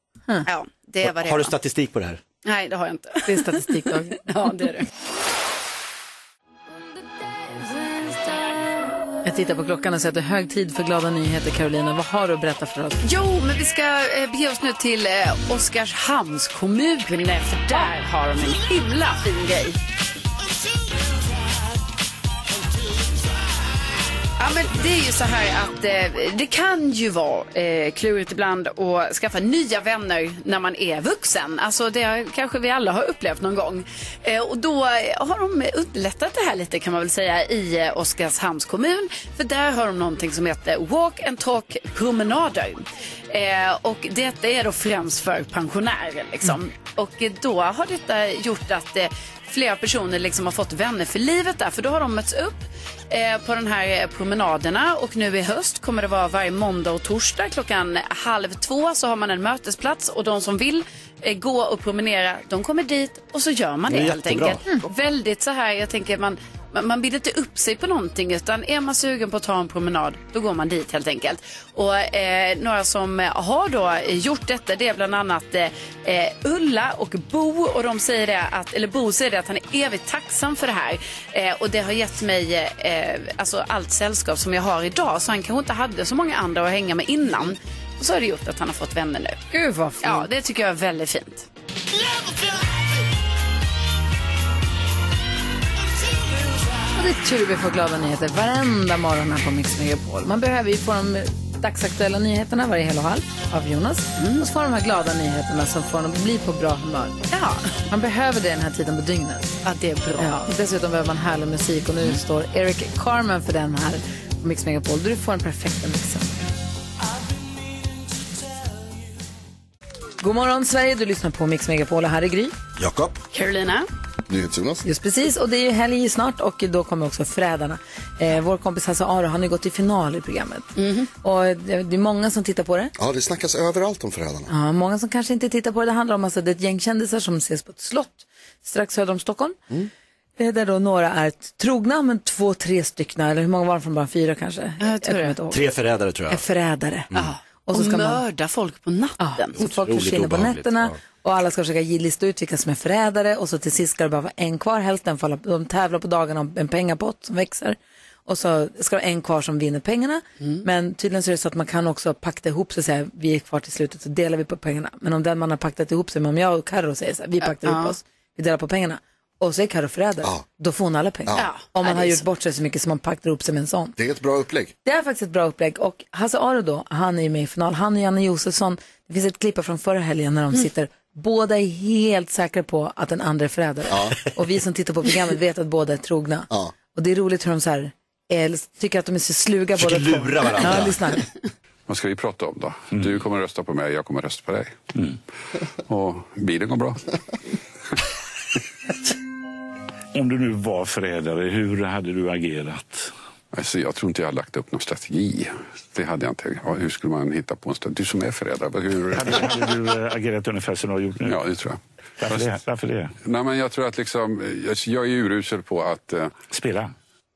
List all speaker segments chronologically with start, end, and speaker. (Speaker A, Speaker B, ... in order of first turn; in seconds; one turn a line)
Speaker A: 0.5-1.6
Speaker B: 1.0-2.2
Speaker A: 2.4-4.9
Speaker C: 3.2-4.5
Speaker C: 9.2-13.0
Speaker A: 13.0-19.8
Speaker A: 24.4-89.4
Speaker B: 63.9-64.8
Speaker C: 89.5-90.3
Speaker A: 90.0-91.5
Speaker C: 97.0-107.2
Speaker A: 104.2-104.5
Speaker A: 107.3-107.8
Speaker C: 107.9-109.6
Speaker A: 109.7-110.3
Speaker C: 110.2-116.3
Speaker C: 120.2-122.6
Speaker B: 122.8-123.2
Speaker A: 123.3-123.9
Speaker D: 124.3-124.8
Speaker C: 124.8-130.7
Speaker A: 130.8-131.1
Speaker C: 131.2-132.9
Speaker D: 133.0-134.5
Speaker C: 134.5-139.6
Speaker C: 140.4-145.6
Speaker A: 144.8-145.4
Speaker B: 145.5-146.4
Speaker C: 146.3-147.1
Speaker A: 147.1-149.6
Speaker C: 147.7-148.2
Speaker C: 149.2-173.9
Speaker B: 149.6-151.0
Speaker A: 167.4-167.9
Speaker A: 171.3-172.2
Speaker D: 174.0-174.8
Speaker C: 174.8-191.2
Speaker D: 183.9-184.2
Speaker B: 189.8-191.1
Speaker E: 191.9-194.9
Speaker E: 195.8-197.1
Speaker F: 200.1-203.1
Speaker E: 203.5-209.5
Speaker F: 209.1-211.4
Speaker E: 211.3-212.6
Speaker F: 212.2-213.1
Speaker E: 213.2-216.4
Speaker F: 216.5-216.9